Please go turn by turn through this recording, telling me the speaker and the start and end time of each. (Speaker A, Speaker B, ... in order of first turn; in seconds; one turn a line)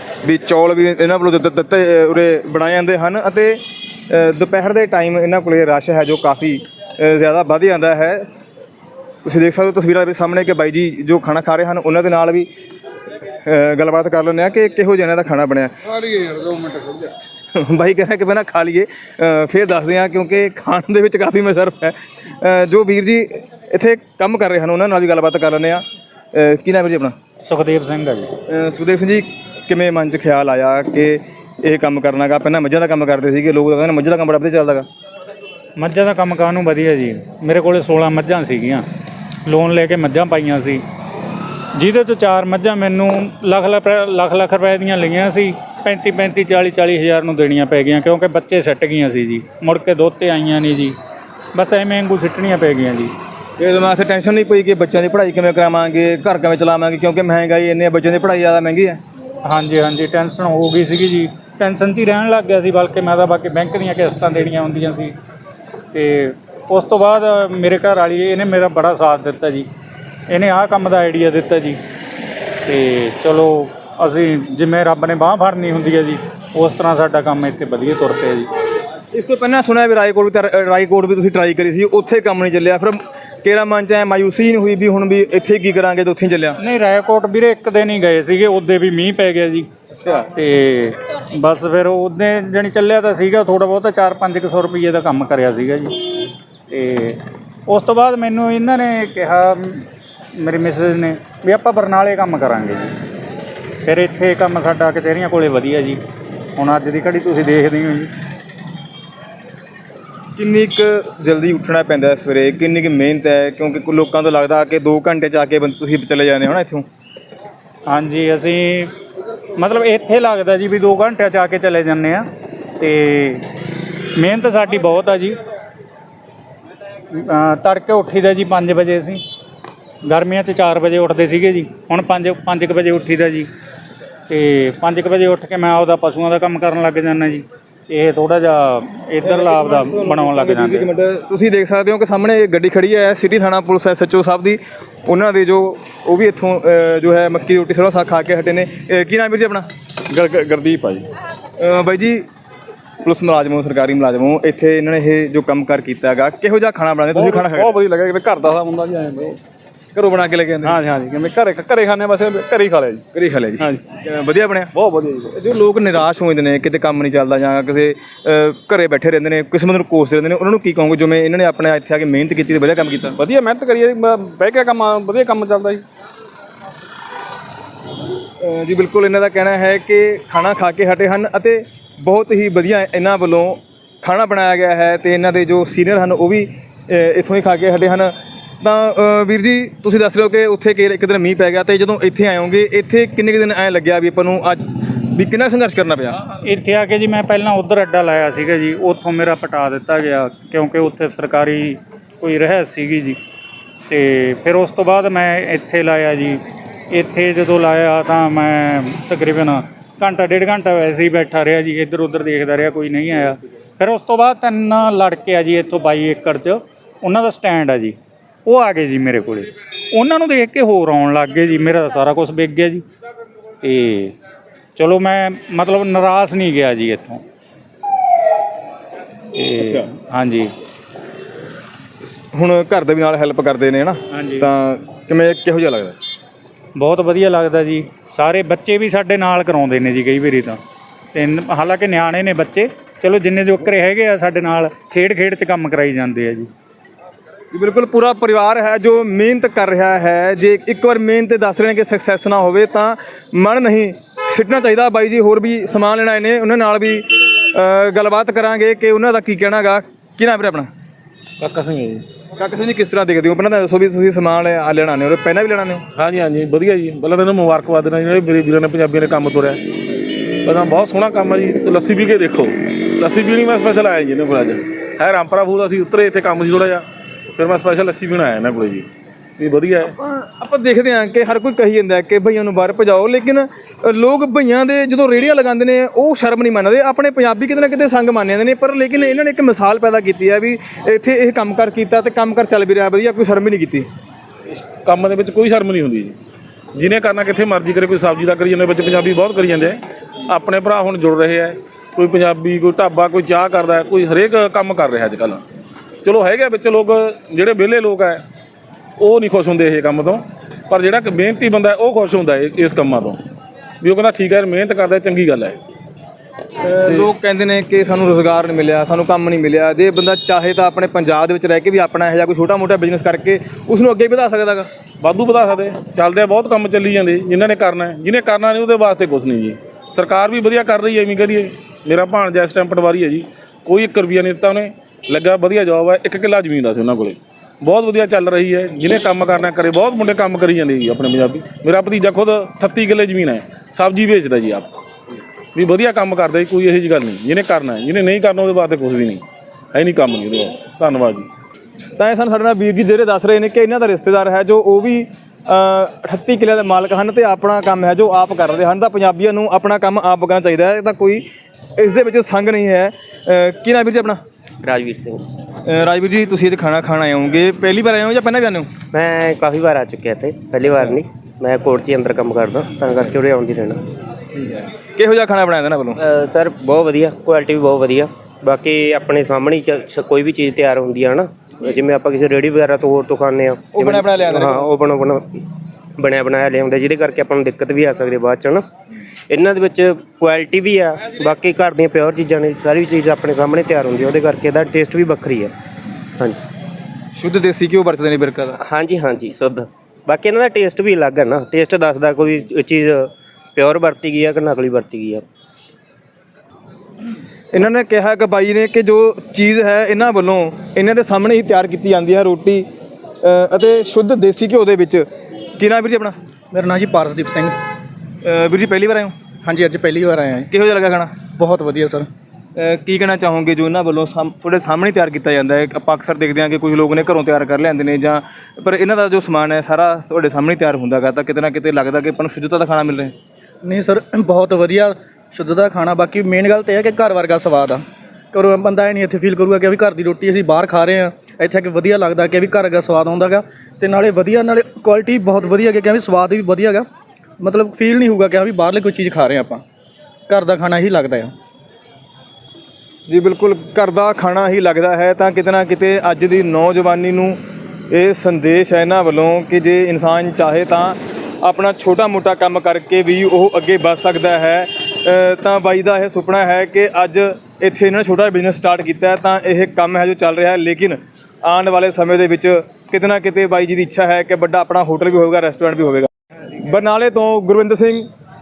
Speaker A: 0.2-8.3
Speaker A: 9.2-12.5
Speaker A: 13.4-27.1
Speaker B: 27.4-28.3
Speaker A: 28.5-34.9
Speaker B: 35.8-38.8
Speaker B: 39.5-40.8
Speaker B: 41.8-51.0
Speaker B: 51.5-53.1
Speaker A: 53.6-59.0
Speaker B: 59.4-65.1
Speaker B: 65.9-69.7
Speaker B: 70.3-71.8
Speaker B: 72.7-78.5
Speaker A: 79.1-86.6
Speaker B: 86.6-89.7
Speaker B: 90.3-96.0
Speaker B: 96.7-102.9
Speaker B: 103.8-106.0
Speaker B: 106.6-108.1
Speaker A: 110.4-116.8
Speaker B: 117.9-118.9
Speaker B: 119.6-122.3
Speaker B: 122.8-123.5
Speaker B: 124.1-125.4
Speaker B: 127.1-129.2
Speaker B: 130.1-133.5
Speaker B: 134.3-140.9
Speaker A: 139.2-149.7
Speaker C: 150.1-151.1
Speaker A: 151.6-152.3
Speaker A: 153.0-157.8
Speaker C: 157.1-159.4
Speaker A: 159.9-160.8
Speaker C: 160.6-163.0
Speaker A: 163.1-164.7
Speaker C: 164.7-165.4
Speaker A: 165.3-173.2
Speaker C: 173.2-175.8
Speaker A: 178.4-196.2
Speaker B: 196.4-203.2
Speaker B: 203.9-217.9
Speaker B: 218.5-222.8
Speaker B: 223.6-224.2
Speaker B: 224.8-227.2
Speaker B: 229.3-230.5
Speaker A: 232.0-236.0
Speaker B: 234.1-234.5
Speaker B: 236.8-240.6
Speaker B: 241.1-246.5
Speaker A: 247.5-260.7
Speaker C: 261.4-262.1
Speaker A: 262.4-265.9
Speaker C: 266.0-269.6
Speaker C: 270.4-276.8
Speaker C: 277.4-278.9
Speaker C: 279.4-279.9
Speaker A: 280.0-293.9
Speaker C: 294.5-296.2
Speaker C: 296.8-305.4
Speaker C: 306.0-308.2
Speaker C: 309.0-313.2
Speaker C: 313.8-315.6
Speaker C: 316.7-317.1
Speaker A: 316.8-324.7
Speaker C: 325.0-344.7
Speaker C: 345.6-351.3
Speaker A: 352.0-361.3
Speaker A: 361.8-364.2
Speaker D: 364.6-365.2
Speaker A: 365.6-368.7
Speaker D: 368.9-373.8
Speaker A: 374.6-376.0
Speaker D: 376.0-388.6
Speaker A: 383.7-384.6
Speaker D: 389.3-395.5
Speaker D: 396.2-396.4
Speaker A: 397.1-398.6
Speaker D: 398.6-405.2
Speaker A: 407.5-412.7
Speaker A: 413.2-415.0
Speaker A: 415.6-416.1
Speaker E: 416.5-417.6
Speaker A: 418.2-419.1
Speaker E: 419.4-420.5
Speaker A: 420.5-421.1
Speaker E: 421.4-422.1
Speaker A: 422.6-433.1
Speaker E: 433.6-446.9
Speaker E: 447.4-449.6
Speaker E: 450.3-451.3
Speaker A: 453.1-457.4
Speaker A: 457.9-478.1